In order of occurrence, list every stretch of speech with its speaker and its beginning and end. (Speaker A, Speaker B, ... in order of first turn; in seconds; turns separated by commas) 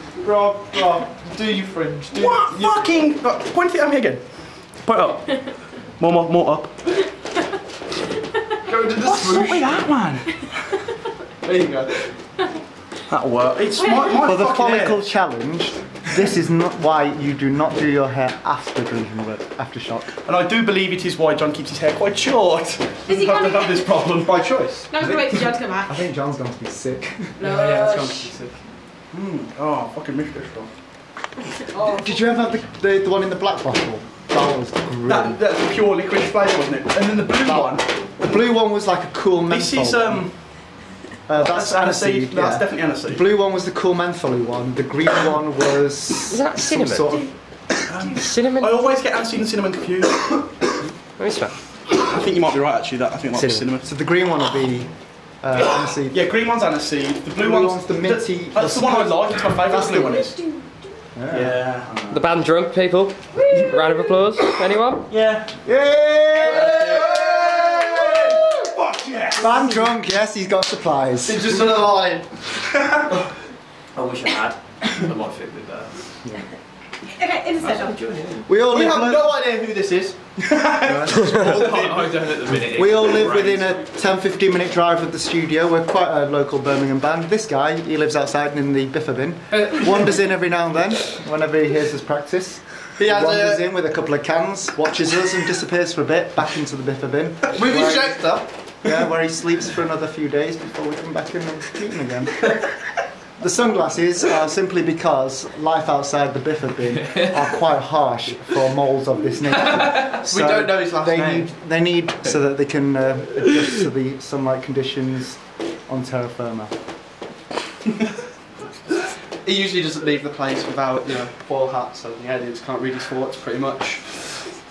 Speaker A: 0.2-2.8, Speaker B: 2.1-6.8, Speaker B: 8.7-10.8, Speaker A: 8.8-9.7, Speaker A: 11.4-12.2, Speaker B: 13.1-15.1, Speaker C: 13.8-14.2, Speaker D: 14.2-20.1, Speaker B: 20.2-24.5, Speaker C: 23.1-24.1, Speaker A: 24.2-24.9, Speaker C: 24.9-26.0, Speaker D: 25.0-27.4, Speaker C: 27.4-28.4, Speaker A: 27.4-28.6, Speaker B: 29.1-30.7, Speaker C: 31.7-32.4, Speaker D: 31.9-35.4, Speaker B: 35.1-38.0, Speaker D: 37.4-40.4, Speaker B: 39.5-40.7, Speaker D: 41.3-47.4, Speaker B: 41.4-43.3, Speaker E: 46.3-47.1, Speaker B: 47.9-50.6, Speaker E: 48.1-48.8, Speaker E: 51.2-51.5, Speaker B: 51.9-53.9, Speaker E: 53.4-53.7, Speaker D: 53.8-56.2, Speaker B: 56.1-60.4, Speaker D: 57.4-60.2, Speaker C: 60.0-60.9, Speaker D: 61.1-61.6, Speaker B: 61.3-62.3, Speaker E: 62.1-65.1, Speaker C: 63.3-63.9, Speaker B: 65.1-65.6, Speaker D: 65.6-68.7, Speaker B: 66.6-69.6, Speaker D: 69.4-71.5, Speaker A: 71.2-72.5, Speaker B: 72.7-73.0, Speaker F: 73.9-76.0, Speaker C: 77.1-78.0, Speaker F: 77.6-78.5, Speaker D: 78.5-79.3, Speaker A: 78.7-80.3, Speaker B: 80.4-82.3, Speaker D: 80.8-81.6, Speaker F: 81.4-83.8, Speaker D: 82.6-102.6, Speaker A: 93.0-93.7, Speaker A: 97.5-98.5, Speaker D: 103.4-116.7, Speaker A: 109.7-111.5, Speaker A: 119.4-124.4